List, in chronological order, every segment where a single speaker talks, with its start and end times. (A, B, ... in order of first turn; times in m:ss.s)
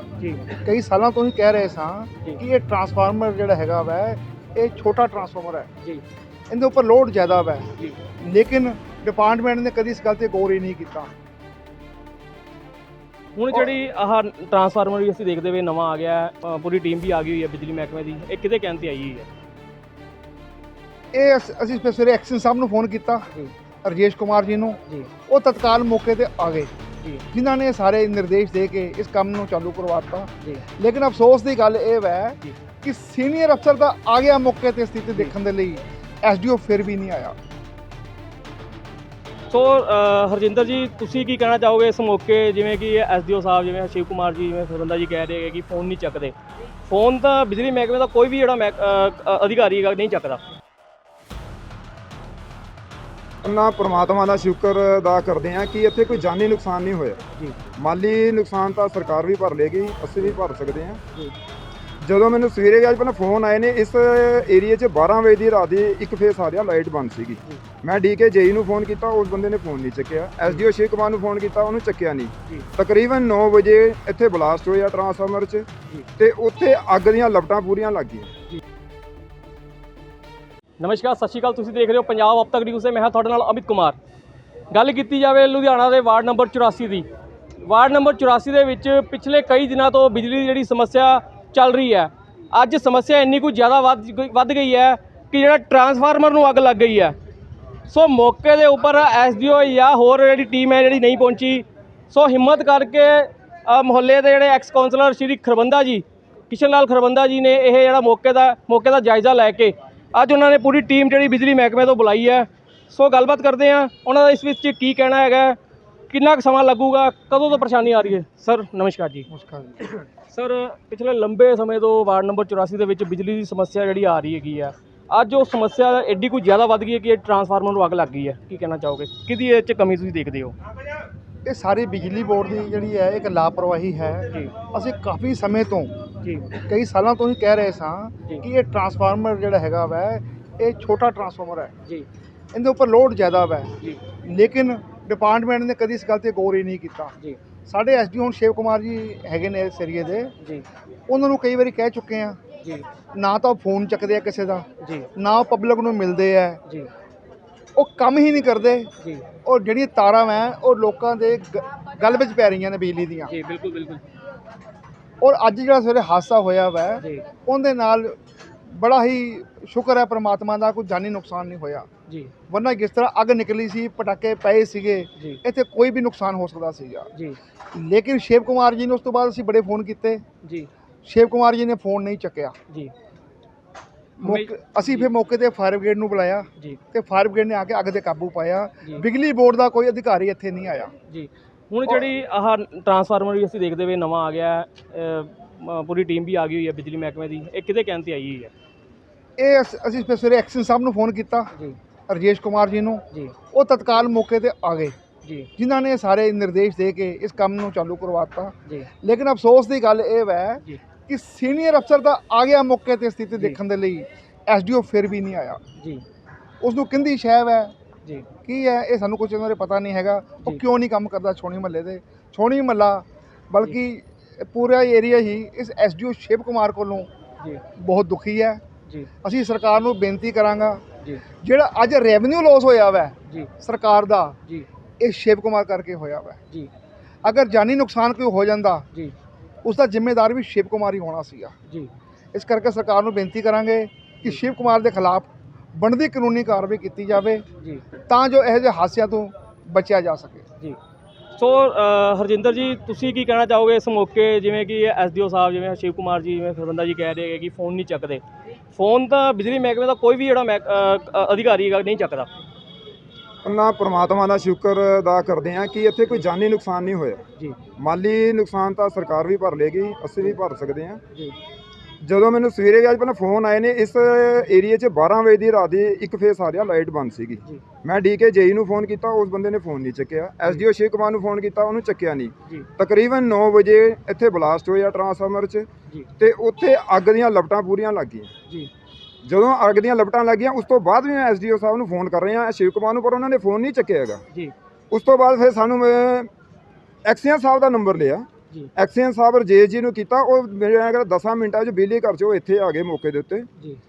0:00.5-0:05.7 A
0:06.5-0:11.1 A
0:13.4-0:19.3 B
0:21.1-0:23.3 A
0:23.8-0:26.7 A
0:27.3-0:37.4 A
0:39.5-0:46.3 B
0:46.9-0:50.4 B
0:53.4-0:57.2 C
0:57.8-1:01.0 C
1:02.0-1:18.3 C
1:20.8-1:24.0 B
1:24.7-1:27.1 B
1:27.6-1:37.2 B
1:37.9-1:55.6 B
1:56.1-1:59.3 B
1:59.3-2:00.0 A
2:00.3-2:10.6 B
2:11.4-2:16.0 A
2:16.5-2:21.8 A
2:22.5-2:27.1 A
2:27.7-2:30.3 A
2:31.1-2:32.4 A
2:33.1-2:36.6 A
2:37.8-2:38.9 A
2:39.4-2:43.3 A
2:43.3-2:44.0 B
2:45.2-2:48.2 A
2:48.7-2:51.9 A
2:52.5-2:57.1 A
2:57.7-3:00.2 A
3:00.4-3:00.7 B
3:01.0-3:02.6 A
3:04.2-3:10.9 A
3:04.2-3:05.1 B
3:11.1-3:18.5 B
3:19.4-3:21.5 A
3:22.1-3:24.9 A
3:25.6-3:35.6 A
3:36.6-3:37.7 A
3:38.4-3:47.1 A
3:47.7-3:48.6 A
3:49.2-3:50.8 A
3:51.4-3:54.4 A
3:55.0-3:56.4 A
3:57.2-3:58.9 A
3:59.6-4:01.5 A
4:02.3-4:07.4 A
4:08.1-4:10.4 A
4:11.4-4:18.2 B
4:18.7-4:22.3 B
4:23.4-4:27.2 C
4:27.8-4:31.0 C
4:32.0-4:45.7 C
4:46.2-4:48.3 C
4:49.2-4:54.2 C
4:54.9-4:56.3 C
4:57.1-5:03.5 C